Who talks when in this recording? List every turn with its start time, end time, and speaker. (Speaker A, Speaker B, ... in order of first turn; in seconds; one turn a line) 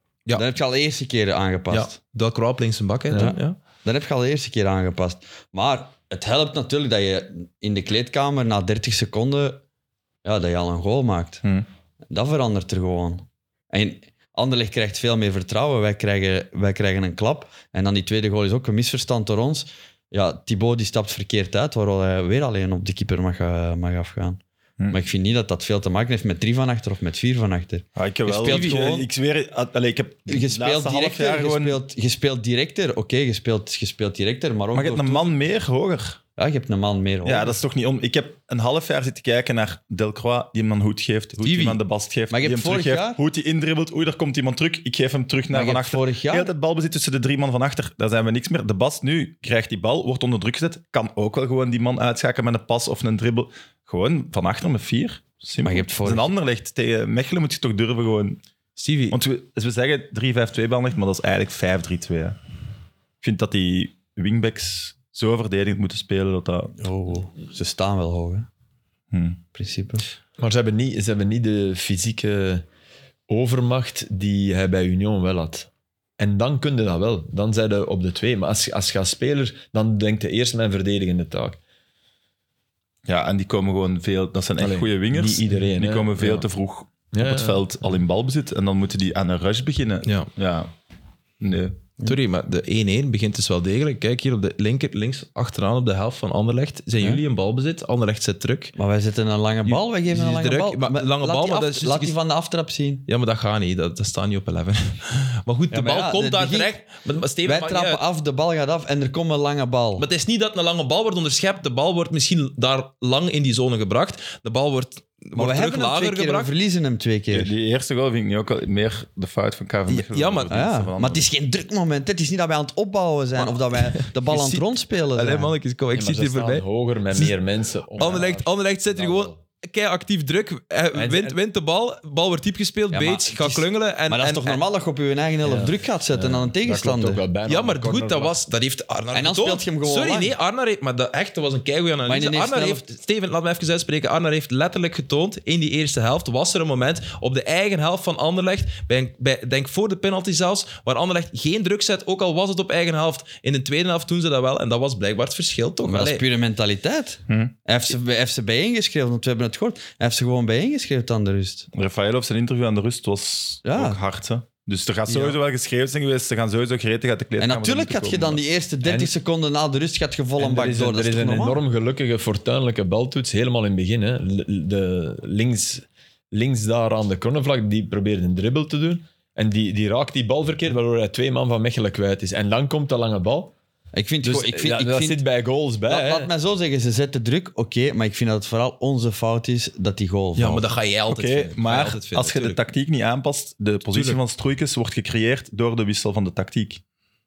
Speaker A: 0.3-1.9
Speaker B: 1.7-3.6
Speaker A: 3.1-9.6
Speaker A: 10.2-11.4
Speaker A: 12.1-29.1
Speaker C: 27.9-31.8
Speaker B: 28.3-28.9
Speaker A: 30.3-35.3
Speaker C: 34.7-36.2
Speaker A: 36.4-37.6
Speaker C: 37.2-58.4
Speaker B: 41.4-41.8
Speaker A: 42.3-43.2
Speaker A: 45.5-46.5
Speaker A: 55.6-56.3
Speaker B: 58.8-59.2
Speaker C: 59.1-62.4
Speaker C: 63.2-66.8
Speaker A: 66.8-68.5
Speaker C: 69.1-69.4
Speaker A: 69.5-70.0
Speaker D: 70.4-72.6
Speaker D: 73.3-75.7
Speaker D: 76.2-81.6
Speaker C: 83.0-90.7
Speaker D: 84.6-86.5
Speaker D: 87.1-87.9
Speaker B: 90.0-90.3
Speaker C: 91.4-91.8
Speaker B: 92.0-98.7
Speaker A: 98.8-103.0
Speaker B: 99.7-102.2
Speaker B: 103.0-108.0
Speaker A: 105.7-106.8
Speaker A: 107.4-110.1
Speaker B: 110.0-116.5
Speaker A: 115.3-117.5
Speaker C: 117.3-121.3
Speaker B: 119.9-120.7
Speaker A: 120.5-125.5
Speaker B: 123.4-127.4
Speaker D: 125.9-129.4
Speaker B: 128.0-134.6
Speaker D: 130.9-131.3
Speaker A: 132.9-137.2
Speaker D: 135.4-138.4
Speaker B: 137.4-156.2
Speaker A: 139.1-140.3
Speaker A: 142.1-142.8
Speaker A: 155.8-161.7
Speaker C: 157.3-157.5
Speaker C: 161.7-168.4
Speaker A: 163.6-164.0
Speaker A: 167.4-171.6
Speaker D: 168.8-169.1
Speaker D: 170.4-183.5
Speaker A: 183.9-185.2
Speaker D: 184.2-186.3
Speaker A: 185.9-190.7
Speaker B: 190.3-192.6
Speaker C: 191.1-196.8
Speaker B: 193.9-194.2